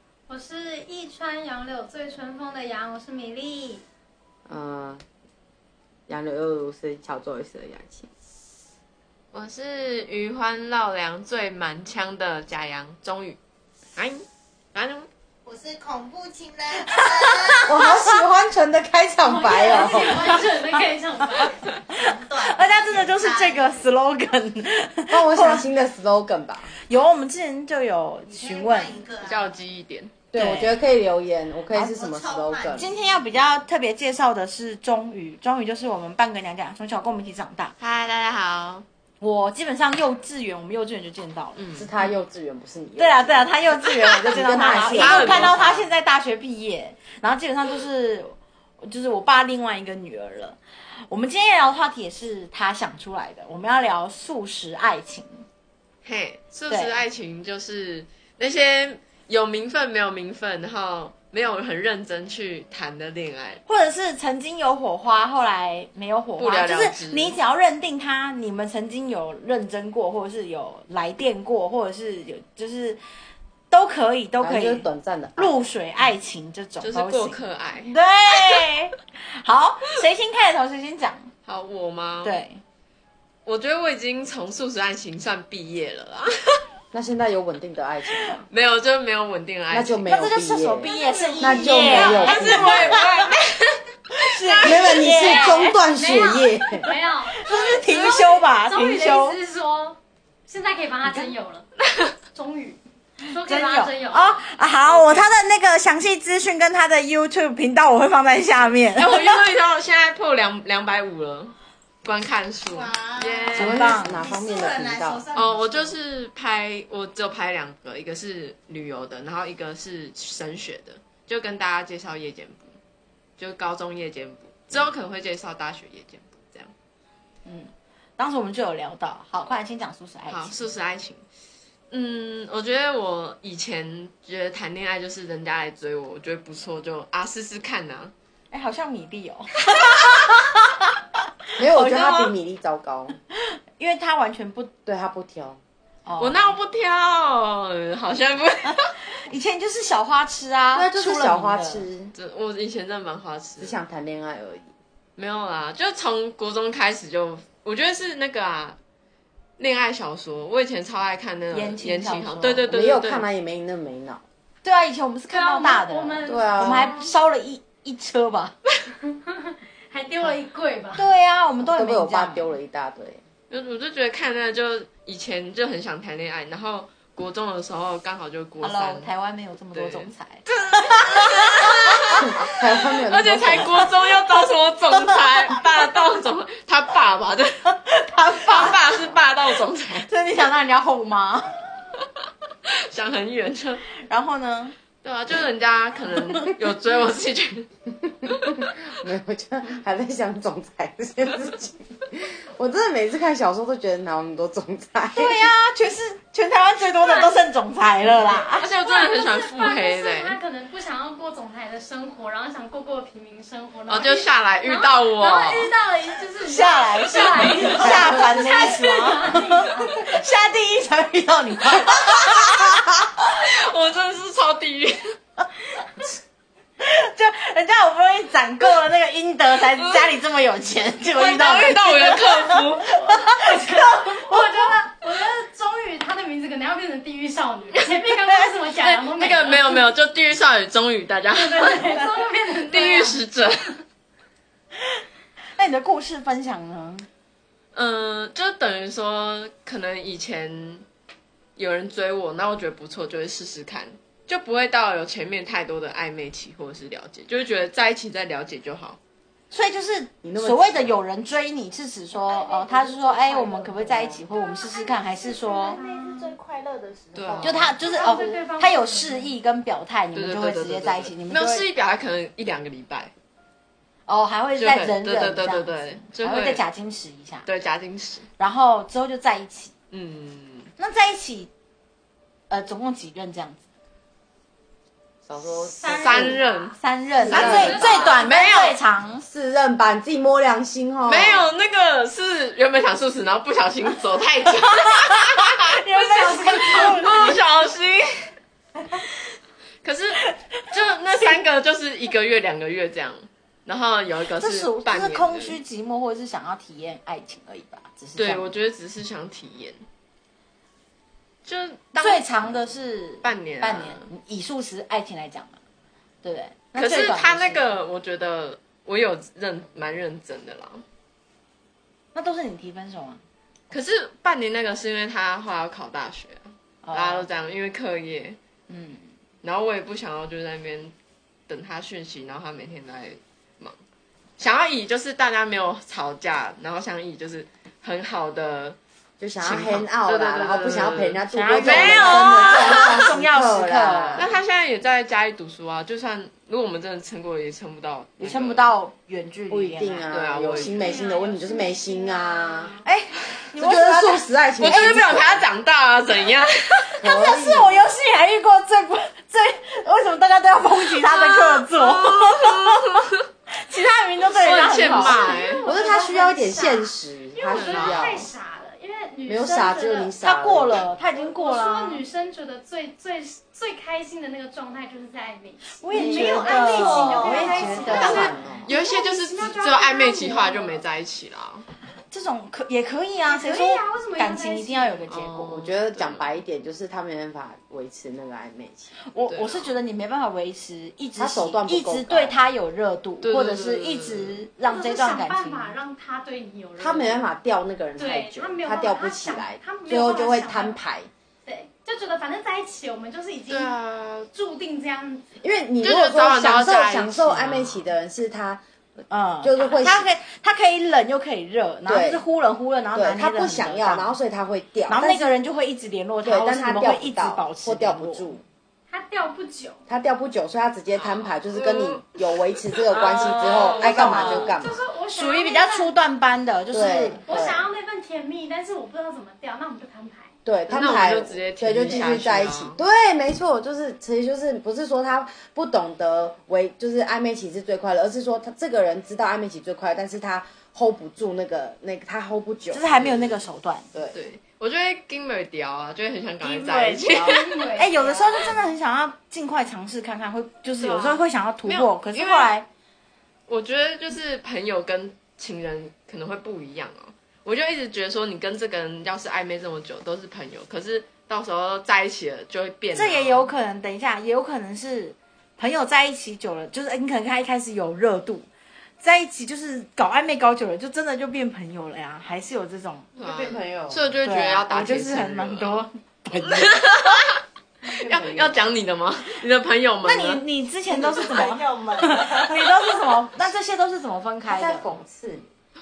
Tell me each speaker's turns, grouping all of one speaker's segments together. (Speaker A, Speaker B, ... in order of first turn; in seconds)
Speaker A: 0.3-3.9, 19.2-21.6, 90.8-93.1, 95.1-101.7, 102.3-104.4, 165.3-166.8, 169.1-171.1, 206.9-207.4, 208.6-220.2, 233.3-239.8, 241.3-243.2, 264.2-266.4, 267.8-269.3, 285.7-286.6, 287.2-288.3, 295.9-297.3, 350.5-352.8, 364.8-370.1, 371.1-380.9, 383.2-385.1, 394.6-397.3, 398.0-400.8, 401.5-403.7, 404.3-405.3, 418.9-419.8, 424.5-425.9, 427.2-430.4, 447.1-448.6
Speaker B: 4.5-5.0, 6.1-8.1, 17.6-20.2, 25.1-26.7, 30.3-32.9, 41.8-45.8, 74.4-75.5, 86.9-88.5, 89.7-93.0, 94.6-96.9, 113.5-115.2, 141.6-143.2, 144.9-145.6, 150.7-152.1, 153.6-154.7, 162.7-164.2, 166.3-166.9, 171.6-173.2, 182.1-183.8, 188.8-189.2, 198.2-205.4, 217.7-219.0, 221.5-222.9, 260.2-260.9, 285.3-286.4, 287.2-288.1, 289.3-291.5, 339.2-344.3, 349.5-352.7, 353.5-355.5, 357.0-357.9, 365.6-368.3, 369.3-370.9, 377.4-378.7, 385.5-388.9, 391.2-392.4, 396.8-401.1, 405.4-408.6, 409.4-410.1, 411.9-412.2, 412.9-415.4, 416.2-418.4, 419.9-424.8, 426.7-427.7, 430.4-442.9, 443.9-444.2, 473.2-474.1, 478.1-478.6, 484.5-485.5
Speaker C: 9.3-13.4, 14.0-15.1, 29.2-30.2, 37.8-38.9, 41.6-41.9, 44.6-45.9, 56.0-63.6, 66.4-67.4, 76.8-78.7, 81.5-82.4, 83.5-86.6, 88.5-90.0, 92.1-93.8, 94.5-94.9, 104.9-105.3, 109.0-113.9, 115.3-122.8, 123.4-126.7, 130.3-131.2, 131.9-138.1, 146.2-148.9, 152.1-153.8, 155.2-158.8, 159.6-163.3, 173.5-179.1, 179.7-182.3, 182.9-187.6, 188.4-190.1, 192.7-193.8, 195.0-197.7, 198.3-198.7, 208.6-210.4, 213.9-215.7, 223.3-225.0, 229.8-230.0, 231.1-233.2, 238.8-241.9, 242.6-243.7, 247.8-250.8, 251.6-259.0, 267.1-267.8, 270.1-273.1, 274.6-276.6, 277.4-278.3, 279.9-280.7, 286.0-286.8, 287.3-288.8, 291.1-295.8, 296.8-298.3, 299.8-305.6, 308.2-309.8, 311.4-312.6, 313.2-314.1, 316.8-320.8, 323.7-328.4, 329.4-330.9, 331.5-333.8, 334.4-338.8, 339.4-343.1, 344.2-348.7, 350.1-351.0, 354.6-357.0, 360.9-363.3, 364.3-365.6, 367.5-368.1, 378.0-381.7, 385.1-386.3, 389.3-389.7, 393.2-394.4, 403.5-404.3, 405.8-407.9, 421.0-422.1, 422.9-424.6, 430.7-432.8, 443.0-443.4, 444.1-447.6, 450.8-452.5, 453.5-463.5, 473.2-475.8, 476.4-480.4
Speaker D: 15.4-17.8, 21.9-23.8, 28.3-29.5, 31.7-32.9, 112.7-116.0, 262.1-267.9, 375.9-378.1, 480.9-483.2
Speaker E: 16.9-18.0, 19.8-20.8, 21.3-25.7, 26.9-29.0, 30.3-30.8, 32.7-37.7, 39.2-41.6, 43.0-55.5, 56.7-57.0, 63.7-73.0, 73.7-77.4, 77.9-81.3, 82.2-82.6, 90.0-93.3, 94.2-95.8, 97.2-99.4, 101.0-101.3, 103.4-109.4, 113.5-114.3, 127.5-130.7, 138.5-141.0, 141.6-142.3, 143.8-144.7, 146.1-146.6, 149.2-151.9, 161.5-162.7, 164.6-168.6, 170.9-172.5, 178.6-182.5, 183.8-185.6, 187.7-188.8, 190.1-191.6, 194.0-194.8, 205.1-208.7, 216.4-222.8, 226.8-235.0, 245.6-247.1, 259.5-265.8, 267.4-271.7, 274.1-277.5, 278.4-279.7, 280.8-281.5, 282.5-283.6, 285.8-289.2, 294.9-297.4, 304.4-308.5, 312.0-315.6, 316.2-317.6, 322.1-323.2, 326.8-327.3, 328.7-329.1, 341.3-344.3, 348.2-350.1, 352.8-355.2, 356.9-363.0, 363.7-365.5, 370.2-372.0, 375.8-378.3, 382.1-385.6, 389.1-395.8, 409.1-414.1, 414.9-418.3, 422.9-424.6, 425.1-427.2, 442.7-443.9, 446.4-452.7, 462.9-468.5, 469.0-473.1, 474.2-476.9, 480.0-484.9